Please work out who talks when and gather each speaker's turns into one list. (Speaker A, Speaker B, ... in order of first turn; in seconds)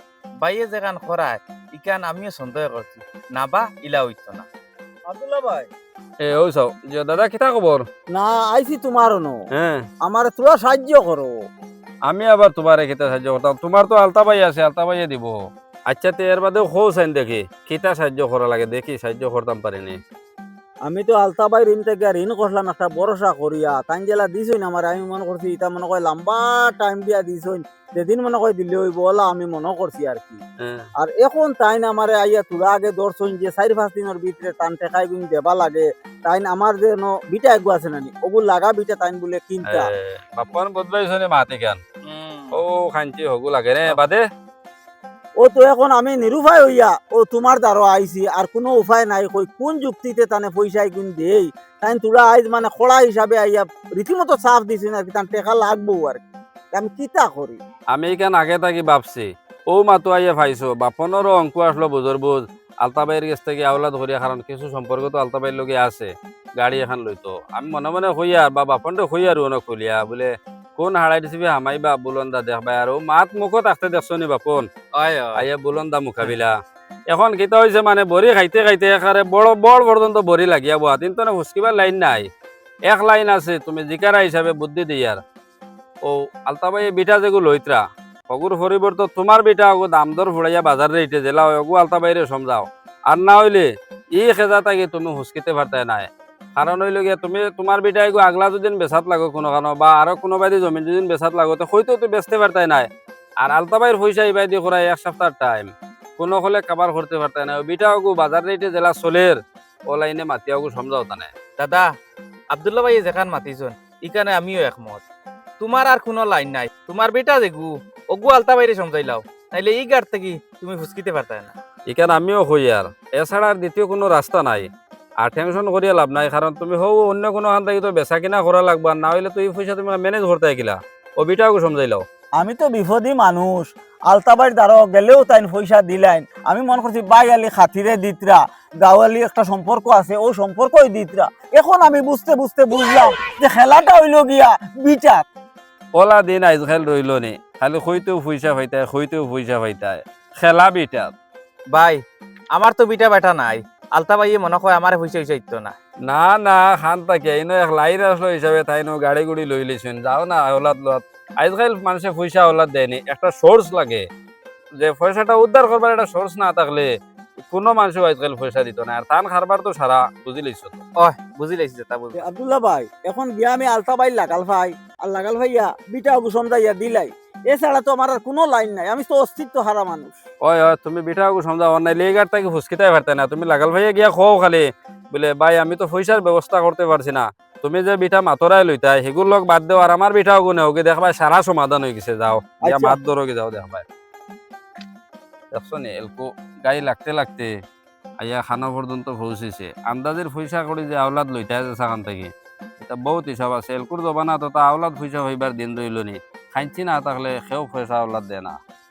Speaker A: 0.4-4.5, 42.0-42.6, 75.0-75.5, 111.6-111.9, 112.5-115.0, 115.6-121.5, 151.7-152.0, 152.5-155.8, 171.0-172.3
Speaker B: 5.1-5.7, 8.1-9.4, 10.0-11.3, 20.9-30.4, 31.0-39.9, 45.4-57.6, 132.4-145.2, 172.2-180.1, 192.6-193.0
Speaker C: 6.2-7.9, 9.6-9.8, 12.1-15.4, 15.9-20.0, 39.7-41.8, 42.5-44.2, 57.9-74.7, 75.3-76.5, 77.1-82.3, 82.9-85.2, 86.0-102.9, 103.4-109.4, 109.9-111.3, 121.9-124.7, 125.2-132.1, 146.0-151.1, 156.1-164.0, 164.8-166.9, 167.4-170.8, 180.4-193.8, 195.5-197.5, 198.2-208.6